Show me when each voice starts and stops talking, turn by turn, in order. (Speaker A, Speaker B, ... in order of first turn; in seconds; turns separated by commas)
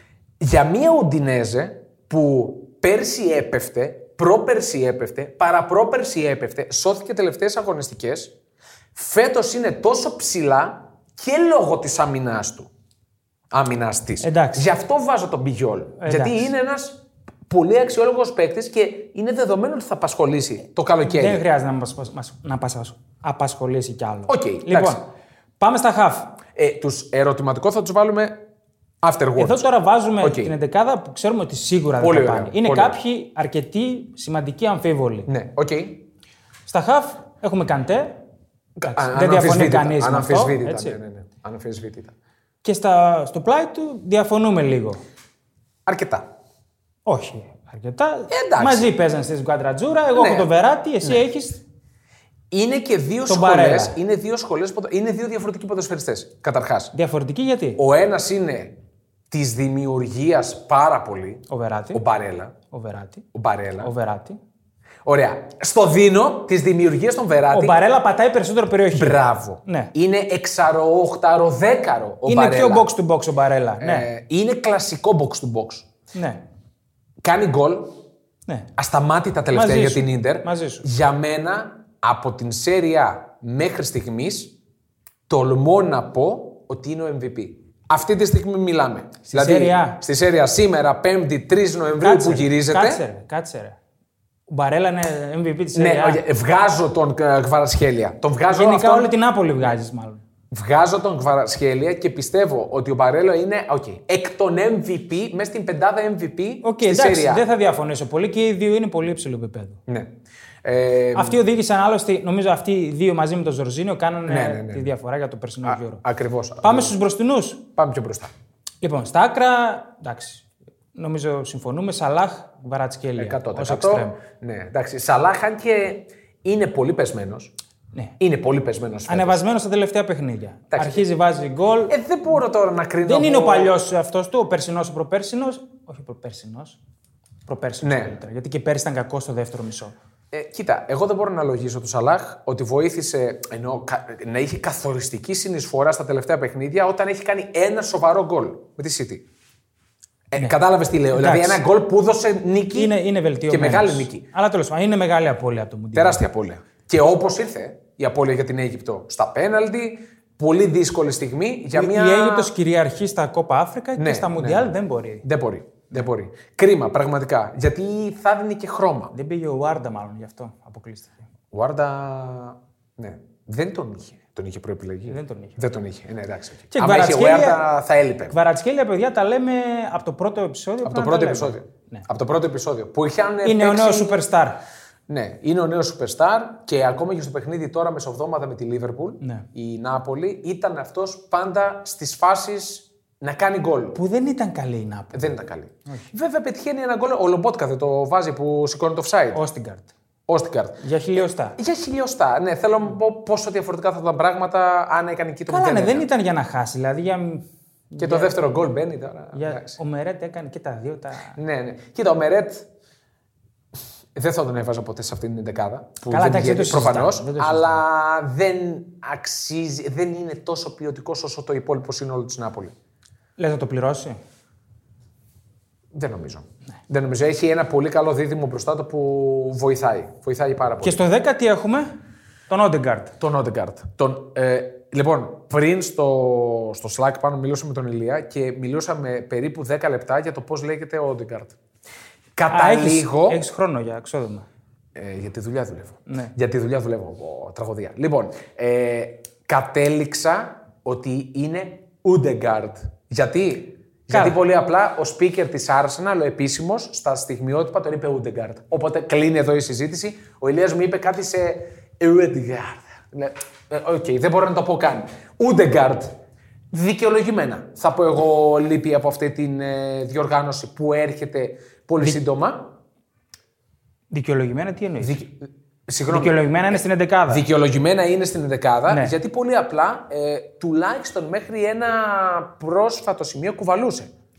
Speaker A: 0.4-8.3, Speaker A: 8.9-12.7, Speaker A: 13.5-21.4, Speaker B: 14.2-14.7, Speaker B: 16.0-16.5, Speaker B: 21.0-25.0, Speaker A: 24.3-25.0, Speaker B: 25.6-26.4, Speaker A: 26.5-28.4, Speaker A: 29.0-29.7, Speaker B: 29.4-35.3, Speaker A: 30.2-30.5, Speaker A: 32.0-33.0, Speaker A: 35.3-36.1, Speaker B: 36.7-38.2, Speaker A: 38.8-42.1, Speaker B: 38.8-41.0, Speaker B: 42.6-45.0, Speaker A: 45.9-46.3, Speaker B: 47.0-51.6, Speaker A: 48.3-48.9, Speaker A: 50.1-50.5, Speaker A: 52.5-56.9, Speaker B: 53.2-54.0, Speaker B: 56.9-57.8, Speaker A: 57.8-58.8, Speaker A: 59.3-62.5, Speaker B: 61.5-62.0, Speaker B: 62.7-63.2, Speaker A: 63.3-63.9, Speaker B: 63.8-64.4, Speaker A: 65.0-67.8, Speaker B: 67.5-69.9, Speaker A: 68.9-72.9, Speaker B: 72.2-74.1, Speaker A: 73.8-75.9, Speaker B: 76.1-76.4, Speaker A: 77.2-78.0, Speaker A: 78.8-84.5, Speaker B: 79.5-80.9, Speaker A: 85.3-93.0, Speaker B: 89.2-90.0, Speaker B: 92.0-93.8, Speaker B: 94.5-96.2, Speaker A: 95.7-99.1, Speaker B: 98.5-100.2, Speaker A: 100.5-107.5, Speaker B: 106.6-109.8, Speaker A: 109.9-111.4, Speaker B: 111.1-116.0, Speaker A: 114.3-114.9, Speaker A: 115.6-116.9, Speaker B: 116.6-117.6, Speaker A: 117.8-118.3, Speaker B: 118.8-124.2, Speaker A: 123.2-127.5, Speaker A: 128.2-129.4, Speaker B: 129.1-131.9, Speaker A: 130.7-131.1, Speaker A: 131.9-133.7, Speaker B: 133.0-136.8, Speaker B: 137.5-139.9, Speaker A: 137.8-138.1, Speaker A: 140.3-149.2, Speaker A: 150.3-152.9, Speaker B: 151.1-151.6, Speaker B: 152.7-156.2, Speaker A: 153.5-154.2, Speaker A: 155.9-162.5, Speaker B: 161.7-165.2, Speaker A: 163.9-169.1, Speaker B: 169.1-171.2, Speaker A: 171.5-178.3, Speaker B: 175.1-175.6, Speaker B: 176.7-177.6, Speaker B: 178.3-182.1, Speaker A: 180.8-184.2, Speaker B: 183.4-184.6, Speaker A: 185.1-194.0, Speaker B: 193.9-195.3, Speaker A: 195.1-199.4, Speaker B: 199.3-199.9, Speaker A: 200.3-206.1, Speaker B: 200.8-201.6, Speaker B: 205.5-208.3, Speaker A: 208.0-209.8, Speaker B: 209.3-211.4, Speaker A: 211.3-212.7, Speaker A: 214.1-222.7, Speaker B: 216.1-217.8, Speaker B: 223.4-224.2, Speaker A: 225.9-231.0, Speaker B: 230.8-231.9, Speaker B: 232.5-233.1, Speaker A: 233.2-241.6, Speaker A: 242.4-243.4, Speaker B: 242.5-244.5, Speaker A: 244.9-266.2, Speaker B: 246.1-246.3, Speaker B: 254.1-254.4, Speaker A: 266.7-272.7, Speaker B: 274.1-275.2, Speaker A: 275.0-284.1, Speaker B: 276.1-277.4, Speaker B: 278.9-279.1